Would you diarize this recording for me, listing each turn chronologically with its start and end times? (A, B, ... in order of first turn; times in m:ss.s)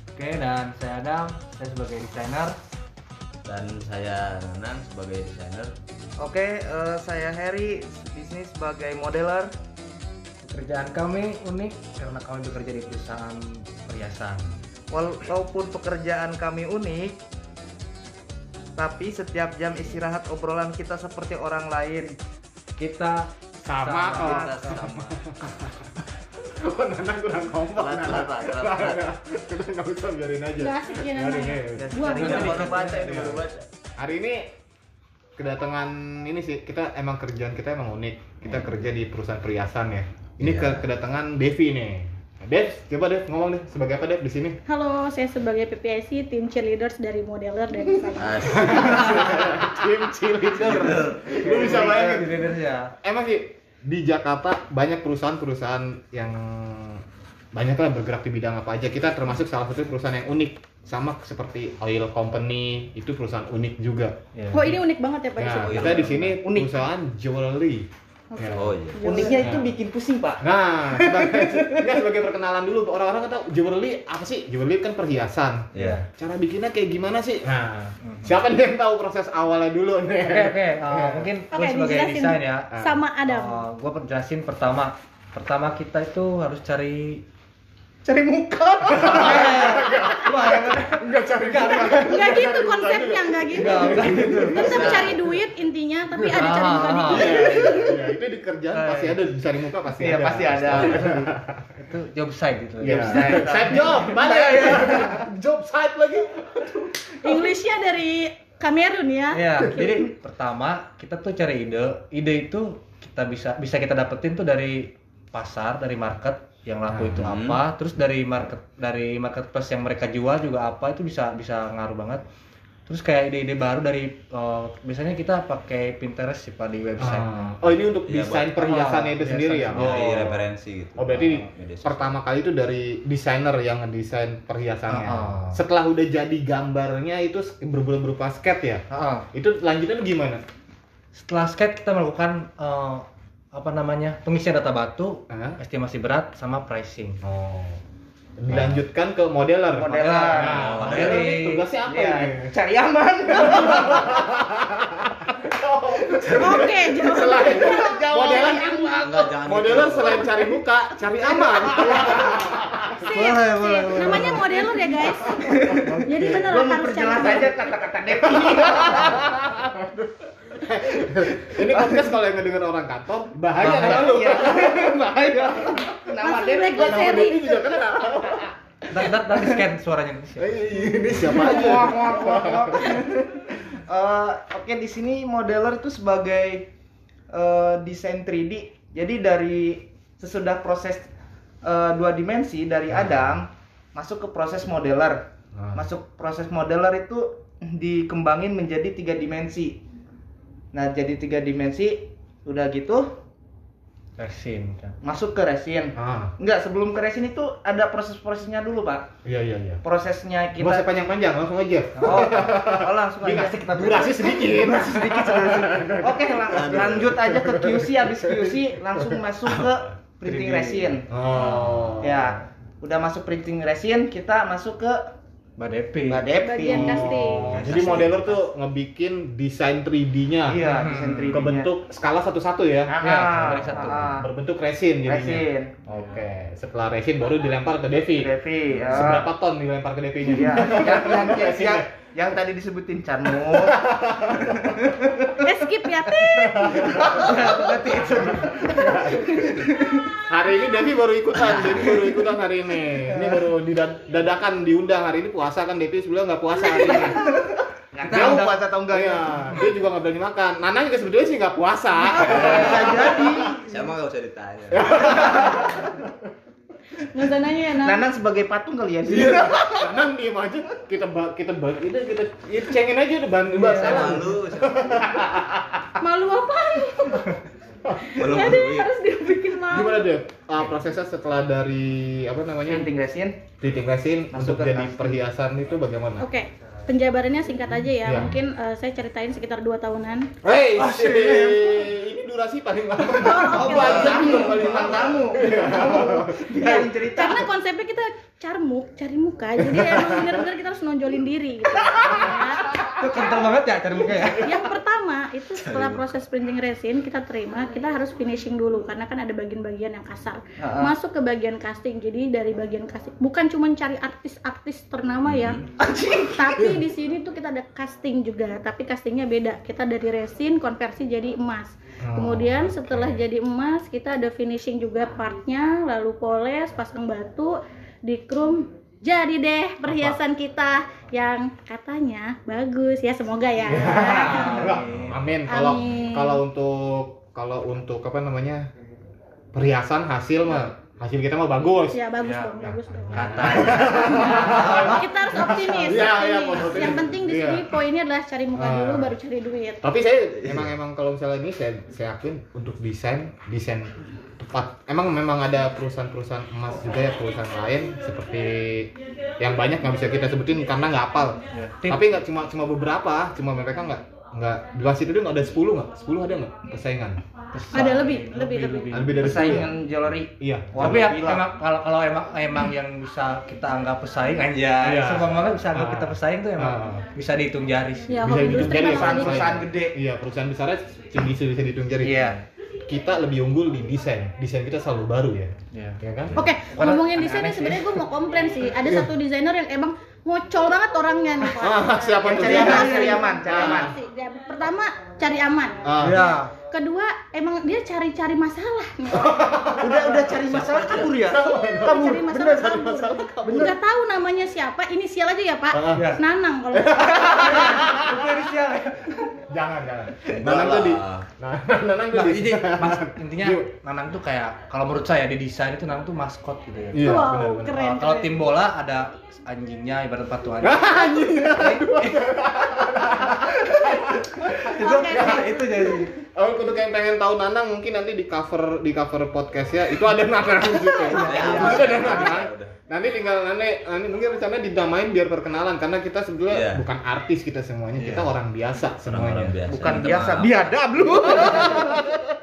0:00.2-0:02.6 A
0:03.4-0:05.7 B
0:06.2-0:09.5 C
0:10.4-0:14.5 A
0:14.9-0:17.2 C
0:18.8-0:22.2 C
0:22.8-0:24.5 A
0:23.6-0:32.4 D
0:24.1-0:24.5 C
0:24.2-0:25.2 B
0:27.7-0:29.0 B
0:30.6-0:32.4 E
0:31.8-0:33.2 C
0:32.0-0:33.4 A
0:32.1-0:33.6 B
0:34.0-0:34.5 D
0:35.4-0:44.6 D
0:40.4-0:40.9 B
0:44.7-0:48.6 E
0:48.1-0:49.3 B
0:48.4-0:52.4 D
0:50.5-0:51.6 B
0:51.4-0:52.9 A
0:51.6-0:51.9 C
0:53.0-1:04.8 D
1:04.3-1:04.6 A
1:04.5-1:06.1 E
1:05.4-1:08.7 D
1:05.6-1:06.3 B
1:06.4-1:06.7 C
1:08.3-1:09.5 E
1:08.5-1:09.4 B
1:09.0-1:11.9 C
1:09.2-1:09.7 D
1:10.4-1:21.3 D
1:15.7-1:16.0 B
1:18.0-1:18.3 A
1:20.2-1:22.7 A
1:21.5-1:23.6 E
1:23.2-1:27.2 A
1:28.0-1:32.1 C
1:29.0-1:35.1 D
1:29.1-1:29.8 A
1:29.9-1:30.3 E
1:31.4-1:32.0 A
1:32.0-1:37.7 E
1:33.6-1:34.9 A
1:34.6-1:35.2 B
1:36.4-1:37.3 A
1:37.0-1:41.6 D
1:37.2-1:38.1 C
1:38.7-1:39.2 A
1:40.0-1:41.3 C
1:41.8-1:44.0 A
1:42.8-1:47.5 D
1:42.9-1:45.2 C
1:47.2-1:50.0 E
1:49.3-2:02.2 A
1:56.9-1:57.3 D
1:57.2-1:57.6 B
2:02.9-2:07.6 A
2:07.0-2:10.4 D
2:08.0-2:08.5 B
2:08.6-2:10.3 A
2:09.7-2:12.2 B
2:11.0-2:20.4 D
2:14.9-2:15.6 A
2:18.9-2:19.2 A
2:21.1-2:27.2 A
2:25.3-2:25.6 D
2:27.2-2:27.8 D
2:28.4-2:32.5 D
2:28.5-2:28.8 A
2:29.8-2:31.2 C
2:29.9-2:31.6 A
2:30.8-2:31.1 B
2:31.8-2:34.3 C
2:33.4-2:43.1 D
2:36.2-2:39.3 C
2:36.4-2:38.0 E
2:39.0-2:40.3 B
2:40.2-2:40.5 C
2:41.2-2:49.4 C
2:42.9-2:45.4 E
2:45.4-2:46.5 D
2:46.0-2:47.6 E
2:48.2-2:56.1 D
2:51.3-2:52.1 C
2:53.6-2:54.2 A
2:53.6-2:58.5 C
2:56.2-2:57.5 E
2:56.7-2:58.5 D
2:58.9-3:00.8 A
3:00.4-3:02.9 D
3:01.2-3:06.7 C
3:07.3-3:11.1 C
3:11.6-3:19.8 C
3:12.9-3:13.3 D
3:15.5-3:15.8 D
3:20.7-3:23.1 C
3:24.2-3:24.9 A
3:25.0-3:29.1 C
3:26.0-3:26.3 D
3:29.2-3:29.8 D
3:29.8-3:30.9 C
3:30.6-3:38.6 D
3:31.9-3:32.4 A
3:32.0-3:41.1 C
3:36.5-3:37.2 B
3:39.4-3:39.9 B
3:40.2-3:40.9 A
3:41.1-3:42.4 D
3:41.3-3:42.0 E
3:42.0-3:45.1 C
3:45.6-3:46.9 A
3:46.0-3:48.0 C
3:46.4-3:47.6 E
3:46.7-3:50.6 D
3:47.4-3:48.2 B
3:50.5-3:51.7 C
3:50.6-3:51.5 A
3:51.3-3:53.0 D
3:52.8-3:54.3 C
3:53.0-3:54.2 A
3:53.5-4:01.9 D
3:55.0-3:55.7 C
3:58.2-3:59.3 C
4:00.3-4:03.8 C
4:03.6-4:04.9 D
4:04.8-4:05.1 C
4:05.4-4:06.8 E
4:06.2-4:07.5 D
4:06.9-4:08.8 A
4:07.0-4:08.0 C
4:08.1-4:09.7 D
4:09.0-4:10.0 C
4:10.3-4:17.4 D
4:11.4-4:12.3 C
4:13.1-4:13.4 C
4:16.8-4:19.4 C
4:18.0-4:18.6 A
4:18.0-4:23.3 D
4:22.1-4:23.8 C
4:22.4-4:25.2 B
4:24.7-4:26.1 D
4:25.1-4:25.5 C
4:27.0-4:28.1 E
4:27.8-4:29.9 C
4:29.1-4:35.8 D
4:33.7-4:35.2 B
4:36.0-4:37.4 E
4:37.9-4:40.1 E
4:38.2-4:38.9 B
4:39.7-4:42.9 D
4:42.6-4:43.4 C
4:43.6-4:46.3 D
4:44.3-4:45.2 C
4:46.2-4:50.3 E
4:48.0-4:48.3 D
4:50.4-4:56.9 D
4:50.8-4:51.8 A
4:53.2-4:57.5 C
4:53.3-4:54.7 E
4:53.7-4:55.2 B
4:57.1-5:03.4 E
4:59.6-5:00.4 D
5:02.8-5:04.5 A
5:04.4-5:15.6 E
5:05.5-5:06.1 B
5:10.6-5:10.9 C
5:15.2-5:15.6 B
5:15.8-5:16.8 C
5:16.4-5:34.7 E
5:22.0-5:22.7 D
5:22.7-5:23.2 B
5:29.8-5:30.2 D
5:33.6-5:38.6 D
5:33.8-5:35.2 A
5:34.7-5:35.2 B
5:35.5-5:36.4 E
5:39.5-5:42.0 D
5:41.9-5:49.8 E
5:42.2-5:42.6 A
5:42.6-5:47.7 D
5:43.1-5:45.0 A
5:48.5-5:49.2 D
5:49.8-6:07.2 D
5:56.8-5:58.7 E
5:59.2-6:01.4 E
6:01.5-6:02.0 A
6:03.6-6:04.3 E
6:05.3-6:05.7 E
6:07.5-6:09.7 A
6:07.7-6:09.5 E
6:08.9-6:09.8 D
6:09.2-6:11.4 C
6:10.4-6:11.1 D
6:10.8-6:18.2 A
6:12.3-6:15.6 E
6:14.8-6:17.0 D
6:16.7-6:19.7 E
6:18.2-6:22.2 D
6:18.8-6:20.0 C
6:22.0-6:22.3 C
6:22.1-6:22.4 A
6:22.9-6:26.4 D
6:22.9-6:24.8 E
6:25.7-6:26.0 A
6:26.3-6:39.5 E
6:26.7-6:27.8 A
6:28.8-6:29.1 D
6:31.4-6:34.0 D
6:32.2-6:33.9 C
6:35.8-6:36.2 D
6:36.0-6:36.5 A
6:39.1-6:40.4 D
6:39.8-6:42.6 C
6:40.5-6:41.1 B
6:41.0-6:43.8 D
6:41.3-6:47.9 E
6:43.4-6:43.7 C
6:45.7-6:46.2 D
6:45.9-6:46.2 A
6:46.7-6:48.1 D
6:47.3-6:49.2 A
6:49.5-6:53.7 D
6:50.2-6:51.3 B
6:52.1-7:02.2 A
6:56.9-6:57.7 D
6:56.9-6:58.5 E
7:00.6-7:19.6 D
7:00.7-7:01.6 E
7:04.7-7:05.6 E
7:04.8-7:06.1 A
7:04.9-7:06.1 C
7:11.0-7:12.2 C
7:11.1-7:12.8 B
7:11.6-7:12.0 A
7:16.5-7:16.8 B
7:18.0-7:18.3 A
7:19.0-7:21.7 B
7:19.6-7:22.2 C
7:21.2-7:22.1 D